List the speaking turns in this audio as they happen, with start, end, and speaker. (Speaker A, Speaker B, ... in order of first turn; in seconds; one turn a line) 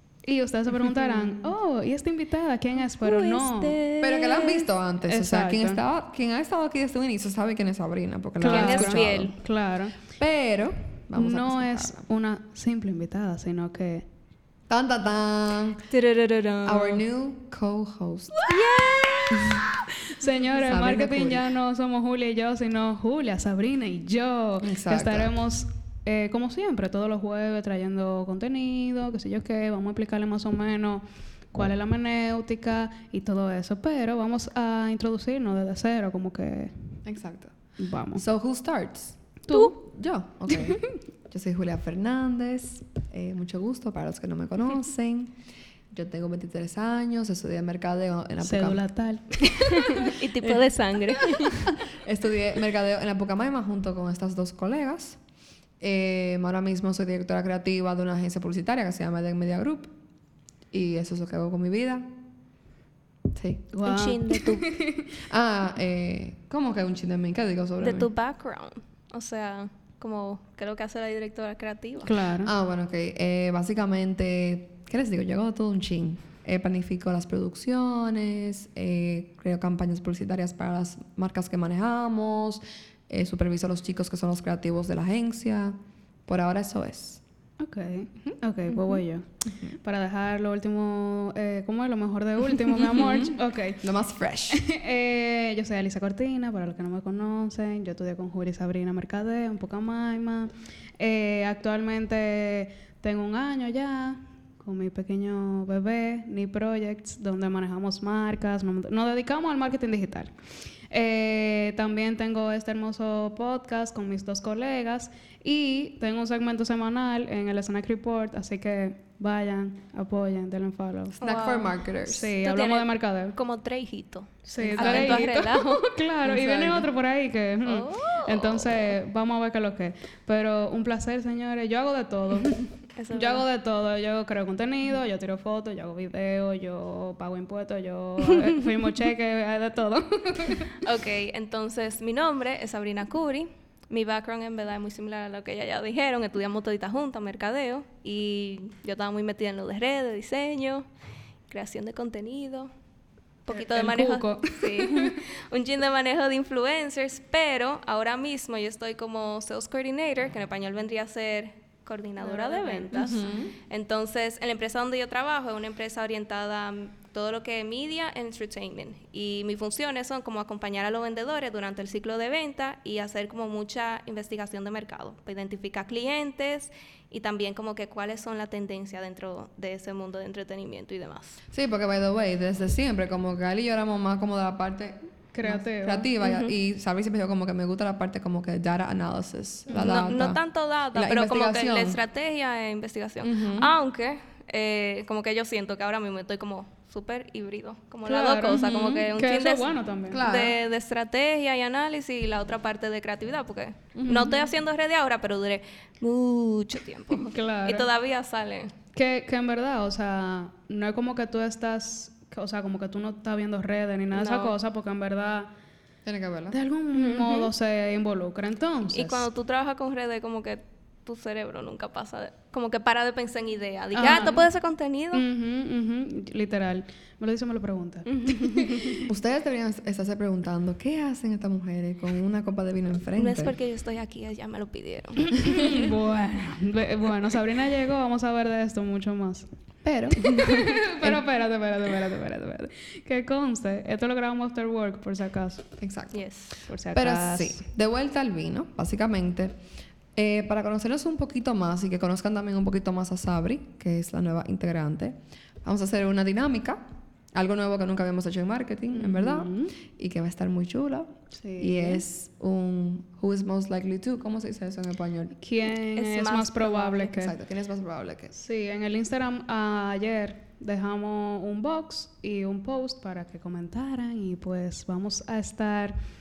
Speaker A: 0.2-3.8
Speaker B: 2.9-4.7
Speaker C: 4.0-9.3
Speaker A: 5.0-5.8
Speaker A: 8.4-10.0
Speaker B: 8.4-9.3
Speaker C: 10.2-12.1
Speaker A: 11.2-14.1
Speaker C: 14.7-15.8
Speaker B: 15.9-17.0
Speaker C: 16.6-18.4
Speaker B: 18.4-19.6
Speaker A: 19.4-36.7
Speaker C: 20.5-21.5
Speaker C: 24.6-25.3
Speaker C: 37.0-37.5
Speaker A: 37.8-38.2
Speaker C: 38.1-45.3
Speaker A: 39.5-39.8
Speaker A: 40.5-40.9
Speaker C: 45.9-48.8
Speaker A: 48.4-50.1
Speaker B: 49.6-51.7
Speaker C: 51.2-55.2
Speaker C: 55.8-59.9
Speaker C: 60.7-62.1
Speaker C: 63.3-63.7
Speaker A: 63.7-65.1
Speaker B: 63.8-64.7
Speaker C: 65.2-68.1
Speaker B: 67.8-72.2
Speaker A: 72.0-72.5
Speaker C: 72.4-87.2
Speaker A: 87.6-89.3
Speaker A: 89.8-93.8
Speaker C: 92.7-94.6
Speaker A: 94.5-110.3
Speaker A: 110.9-121.2
Speaker C: 121.1-122.3
Speaker B: 121.2-121.8
Speaker A: 122.0-123.3
Speaker B: 122.4-126.0
Speaker A: 124.4-140.7
Speaker C: 124.6-125.3
Speaker C: 126.2-126.9
Speaker B: 127.6-128.9
Speaker B: 133.0-133.4
Speaker B: 138.3-138.6
Speaker B: 140.8-150.8
Speaker B: 151.5-152.7
Speaker B: 153.4-181.4
Speaker A: 153.5-155.2
Speaker A: 162.2-162.9
Speaker C: 162.9-163.6
Speaker C: 181.5-190.4
Speaker A: 185.3-186.1
Speaker B: 186.2-186.5
Speaker B: 189.7-208.7
Speaker C: 190.9-192.0
Speaker C: 193.2-193.7
Speaker A: 198.1-200.2
Speaker C: 200.1-200.6
Speaker C: 203.9-204.3
Speaker A: 204.0-204.4
Speaker A: 207.2-207.9
Speaker A: 208.9-215.5
Speaker B: 214.1-214.6
Speaker C: 216.0-216.6
Speaker A: 216.5-219.3
Speaker B: 216.9-217.5
Speaker B: 218.9-225.3
Speaker A: 223.9-224.5
Speaker A: 225.1-229.1
Speaker B: 228.1-229.0
Speaker C: 229.1-233.5
Speaker B: 233.2-235.9
Speaker A: 235.3-239.5
Speaker C: 239.8-241.2
Speaker A: 240.2-245.7
Speaker C: 245.8-246.2
Speaker B: 246.1-246.6
Speaker A: 246.7-247.6
Speaker C: 246.9-249.5
Speaker C: 250.2-265.3
Speaker A: 258.9-259.8
Speaker A: 261.3-262.0
Speaker A: 265.4-267.3
Speaker B: 265.9-267.1
Speaker C: 267.1-268.3
Speaker A: 268.3-276.0